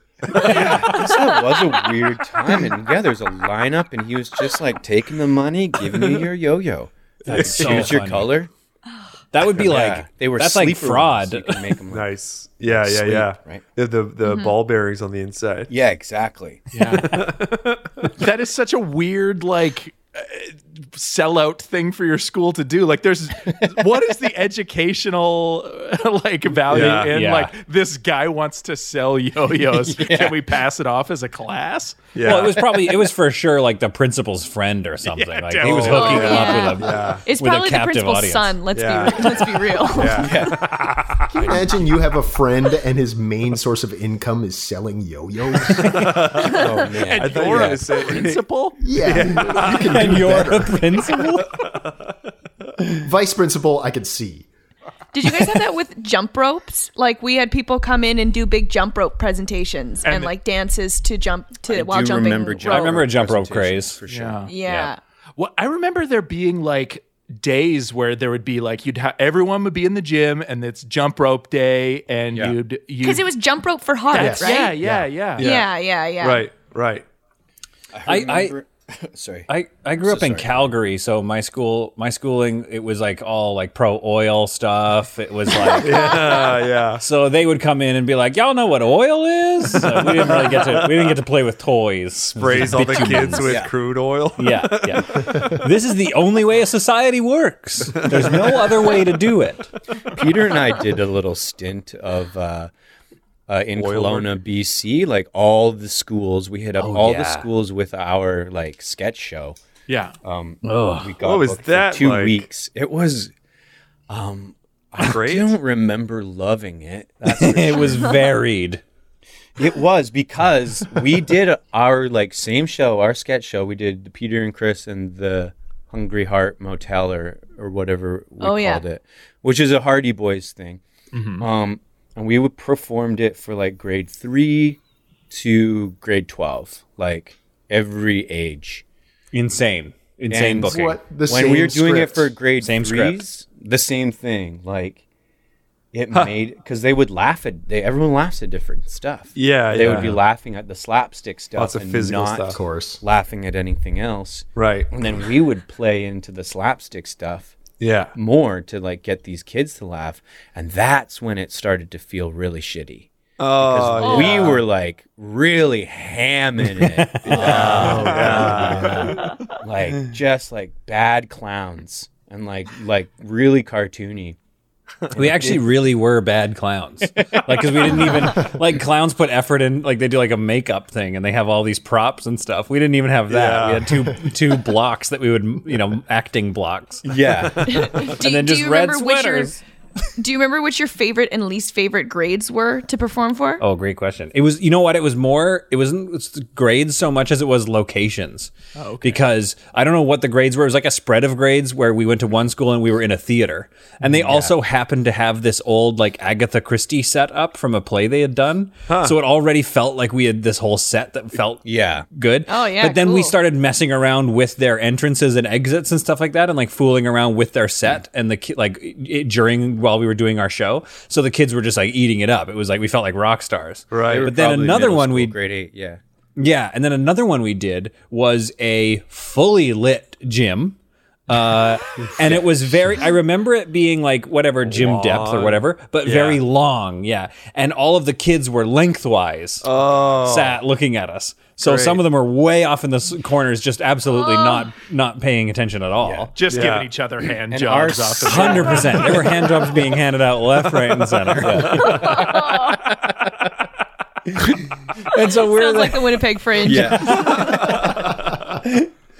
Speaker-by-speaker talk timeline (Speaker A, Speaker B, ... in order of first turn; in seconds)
Speaker A: 0.3-0.9, 7.3-7.9, 11.9-15.7, 16.8-18.1, 26.7-27.2, 32.1-32.6, 35.6-37.2, 38.7-41.8, 45.8-46.6, 47.2-50.2, 51.1-52.1, 75.3-77.0, 85.8-87.0, 90.0-91.2, 92.3-95.4, 98.0-98.7, 103.8-104.3, 111.2-112.5, 114.9-115.5, 149.3-150.2, 151.6-152.6, 154.6-154.9, 157.8-158.1, 163.4-164.6, 167.3-169.0, 183.3-184.0, 187.4-187.9, 208.9-209.1, 223.9-224.3, 234.7-236.4, 239.6-240.6, 241.6-242.0, 246.5-246.9, 251.4-252.2
Speaker B: 0.3-8.5, 9.5-13.6, 15.7-16.7, 29.7-30.4, 40.1-40.7, 46.5-48.1, 61.7-64.5, 77.9-79.5, 80.0-80.7, 93.4-93.7, 100.1-102.7, 103.5-109.6, 110.2-113.3, 114.1-118.1, 119.6-130.8, 131.4-138.8, 140.3-145.0, 145.9-157.5, 158.1-174.4, 175.1-175.6, 177.2-178.0, 187.0-187.9, 204.1-204.6, 211.6-212.1, 224.0-226.0, 246.0-246.6, 247.5-249.1, 251.4-252.2, 256.6-257.9
Speaker C: 7.3-8.3, 9.3-11.6, 26.7-27.5, 32.2-38.6, 49.6-51.6, 62.7-64.0, 64.6-64.9, 78.0-78.5, 79.5-86.2, 87.0-93.7, 94.4-99.7, 106.8-107.5, 110.6-111.1, 117.2-118.8, 139.3-141.0, 142.6-143.2, 149.9-150.1, 167.1-168.6, 175.1-187.0, 188.2-189.6, 193.6-225.3, 226.4-230.8, 231.3-239.7, 240.2-246.3, 248.2-252.2, 255.1-257.5, 258.5-258.9
Speaker D: 14.2-14.6, 35.9-40.4, 55.1-63.0, 64.5-65.0, 73.0-74.8, 75.4-76.5, 85.7-86.6, 128.4-128.8, 164.0-164.6, 187.7-189.6, 190.2-193.6, 212.5-213.3, 244.1-244.7, 251.8-252.8, 255.2-257.5
Speaker E: 16.7-17.1, 18.2-32.1, 35.0-36.3, 47.0-48.8, 60.0-60.3, 64.1-64.5, 65.4-73.3, 74.1-75.5, 109.9-110.1, 131.1-131.5, 167.9-169.1, 198.8-199.2, 246.3-249.4
Speaker F: 41.3-46.1, 48.8-50.9, 53.0-54.5, 74.1-75.1, 140.6-142.3, 152.5-153.0, 168.3-169.0